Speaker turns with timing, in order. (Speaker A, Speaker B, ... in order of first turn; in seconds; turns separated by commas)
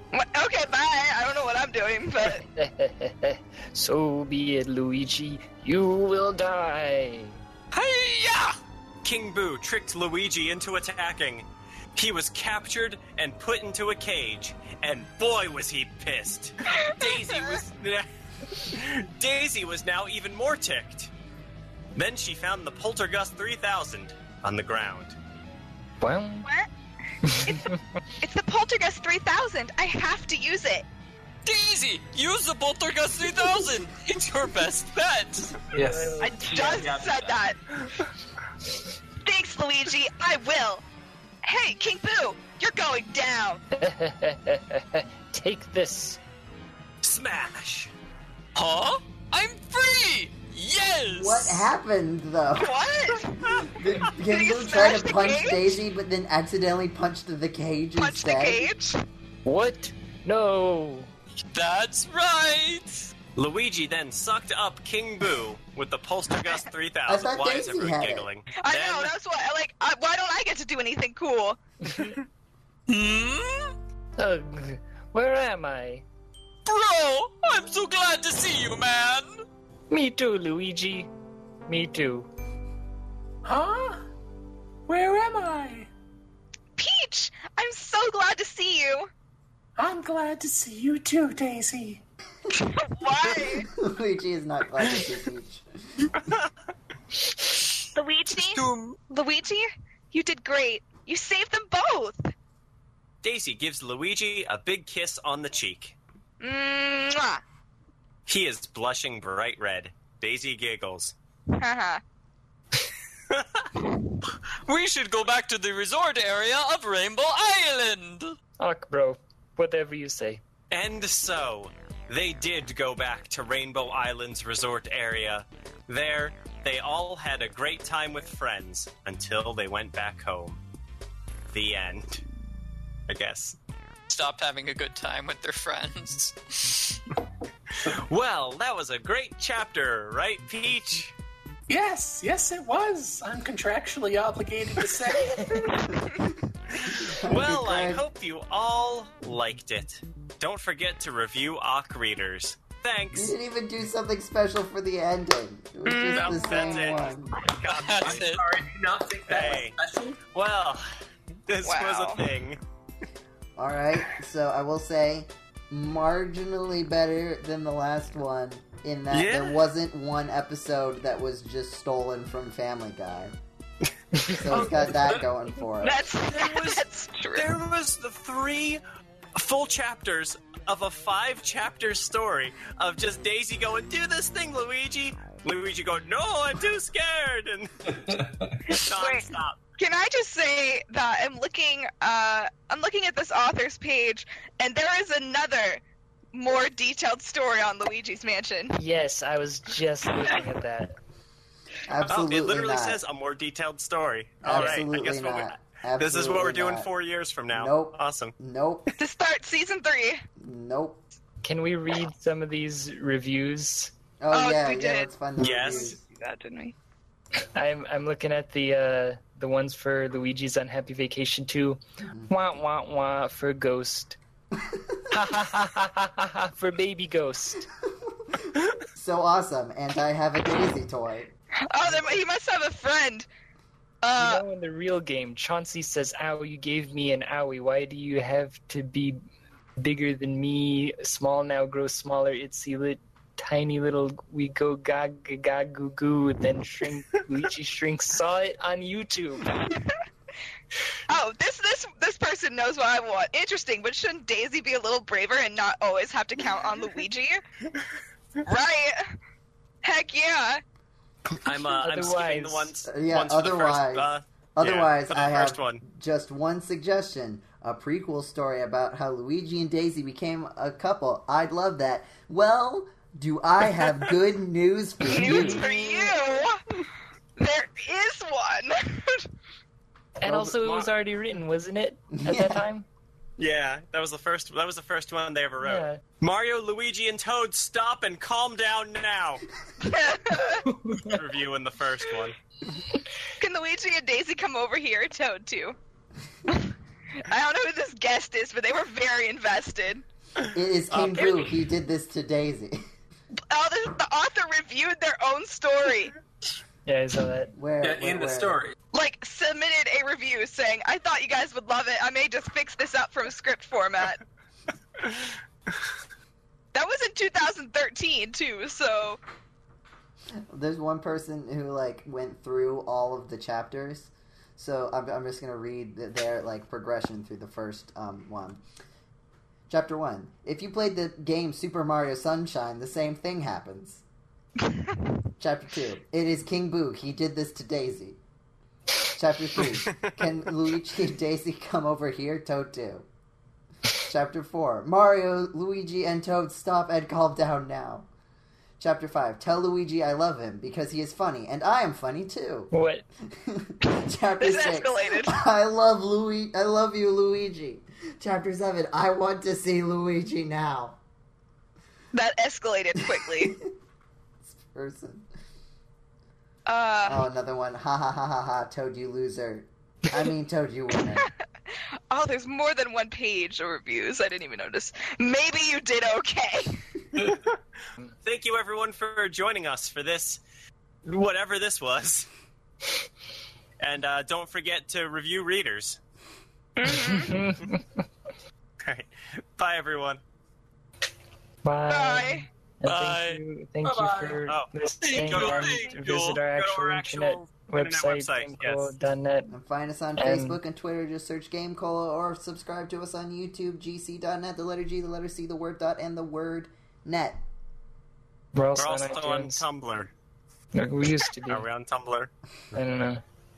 Speaker A: 0.1-2.4, Speaker B: 2.4-7.4, Speaker C: 7.7-8.6, Speaker D: 9.0-21.1, Speaker A: 16.7-17.6, Speaker D: 21.9-25.2, Speaker B: 26.0-26.5, Speaker B: 27.2-27.8, Speaker A: 28.2-30.9, Speaker C: 31.4-35.7, Speaker B: 35.7-36.8, Speaker E: 35.7-37.4, Speaker A: 36.2-37.6, Speaker A: 39.2-40.9, Speaker A: 41.4-43.6, Speaker B: 43.8-46.2, Speaker D: 47.0-47.9, Speaker C: 48.5-51.7, Speaker F: 51.1-52.7, Speaker A: 52.5-55.8, Speaker F: 53.6-58.7, Speaker A: 58.0-59.0, Speaker B: 59.5-61.1, Speaker C: 61.5-63.1, Speaker D: 63.4-69.1, Speaker F: 67.1-68.3, Speaker A: 68.6-71.6, Speaker B: 71.8-72.2, Speaker C: 72.9-73.7, Speaker B: 74.2-76.0, Speaker C: 76.7-79.3, Speaker B: 79.9-81.1, Speaker B: 81.7-82.3, Speaker E: 83.4-84.0, Speaker E: 84.9-85.9, Speaker A: 86.8-89.1, Speaker E: 89.8-92.0, Speaker A: 92.5-93.7, Speaker F: 93.6-96.1, Speaker A: 97.9-102.3, Speaker C: 98.4-99.0, Speaker D: 103.2-106.0, Speaker A: 106.4-107.4, Speaker D: 108.3-111.2, Speaker A: 111.5-112.0, Speaker D: 113.3-113.7, Speaker C: 114.7-118.3, Speaker B: 118.6-120.4, Speaker D: 120.7-130.6, Speaker D: 131.5-132.2, Speaker D: 133.1-133.6, Speaker C: 134.1-137.0, Speaker D: 137.9-141.1, Speaker E: 141.7-145.6, Speaker A: 145.7-146.1, Speaker F: 145.9-148.1, Speaker D: 146.8-153.3, Speaker F: 153.1-157.3, Speaker A: 155.8-157.1, Speaker D: 156.1-158.3, Speaker C: 157.5-158.4, Speaker E: 157.8-160.2, Speaker D: 159.3-159.8, Speaker D: 160.3-160.9, Speaker D: 161.5-162.6, Speaker A: 161.6-162.3, Speaker F: 163.6-173.4, Speaker D: 169.1-169.6, Speaker F: 174.3-176.0, Speaker E: 174.5-175.3, Speaker A: 175.8-177.5, Speaker D: 176.3-176.8, Speaker D: 177.3-178.8, Speaker D: 179.3-189.6, Speaker E: 187.9-188.8, Speaker A: 188.8-189.3, Speaker A: 189.8-195.8, Speaker A: 196.3-198.8, Speaker B: 198.8-201.0, Speaker F: 201.9-203.0, Speaker D: 202.1-208.3, Speaker F: 204.4-206.9, Speaker B: 204.5-204.8, Speaker F: 207.5-208.9, Speaker A: 209.0-210.2, Speaker F: 210.4-211.0, Speaker B: 211.4-213.9, Speaker F: 214.2-216.0, Speaker A: 214.3-216.8, Speaker D: 215.4-216.0, Speaker B: 217.6-224.2, Speaker F: 222.1-222.3, Speaker F: 224.7-225.0, Speaker B: 225.1-227.7, Speaker F: 228.9-231.3, Speaker A: 231.7-233.3, Speaker A: 234.0-234.4, Speaker B: 234.2-239.2, Speaker B: 239.8-249.6, Speaker A: 249.5-250.0, Speaker A: 251.1-257.4, Speaker A: 258.4-259.0, Speaker A: 259.8-260.6, Speaker D: 261.4-265.8, Speaker B: 261.5-262.7, Speaker F: 262.9-275.7, Speaker D: 273.8-274.1, Speaker B: 275.1-276.1, Speaker A: 275.1-276.6, Speaker A: 277.4-279.3, Speaker B: 280.2-282.9, Speaker D: 280.2-280.9, Speaker F: 282.1-282.7, Speaker D: 283.4-289.4, Speaker B: 285.6-286.0, Speaker A: 289.8-290.7, Speaker B: 290.7-291.2, Speaker D: 291.0-292.4, Speaker A: 293.4-295.8, Speaker A: 296.5-300.0, Speaker F: 300.5-302.8, Speaker D: 300.9-301.4, Speaker A: 301.1-301.5, Speaker A: 303.5-306.1, Speaker B: 306.9-307.5, Speaker F: 307.6-308.6, Speaker E: 307.8-308.8, Speaker A: 308.9-314.2, Speaker A: 316.7-319.2, Speaker F: 320.5-328.6, Speaker F: 329.7-334.0, Speaker A: 334.7-335.0, Speaker F: 335.4-338.2, Speaker F: 339.1-343.1, Speaker F: 344.0-348.1, Speaker F: 348.8-352.7, Speaker B: 352.7-353.1, Speaker F: 353.3-361.0, Speaker A: 354.4-355.4, Speaker A: 362.1-363.6, Speaker F: 363.1-363.6, Speaker F: 364.4-365.3, Speaker A: 366.7-367.2, Speaker F: 367.0-371.3, Speaker A: 371.1-376.8, Speaker D: 377.2-377.6, Speaker D: 378.2-380.4, Speaker D: 381.1-382.3, Speaker D: 383.8-386.0, Speaker A: 386.8-387.4, Speaker B: 386.9-387.9, Speaker D: 388.8-390.2, Speaker B: 391.6-399.6, Speaker A: 391.9-392.5, Speaker C: 392.9-393.4, Speaker E: 393.8-394.4, Speaker D: 394.5-398.9, Speaker C: 395.0-396.4, Speaker F: 399.5-407.4, Speaker B: 400.2-400.6, Speaker B: 408.5-409.7, Speaker D: 408.8-410.1, Speaker B: 410.7-411.7, Speaker D: 411.5-412.3, Speaker B: 412.7-413.2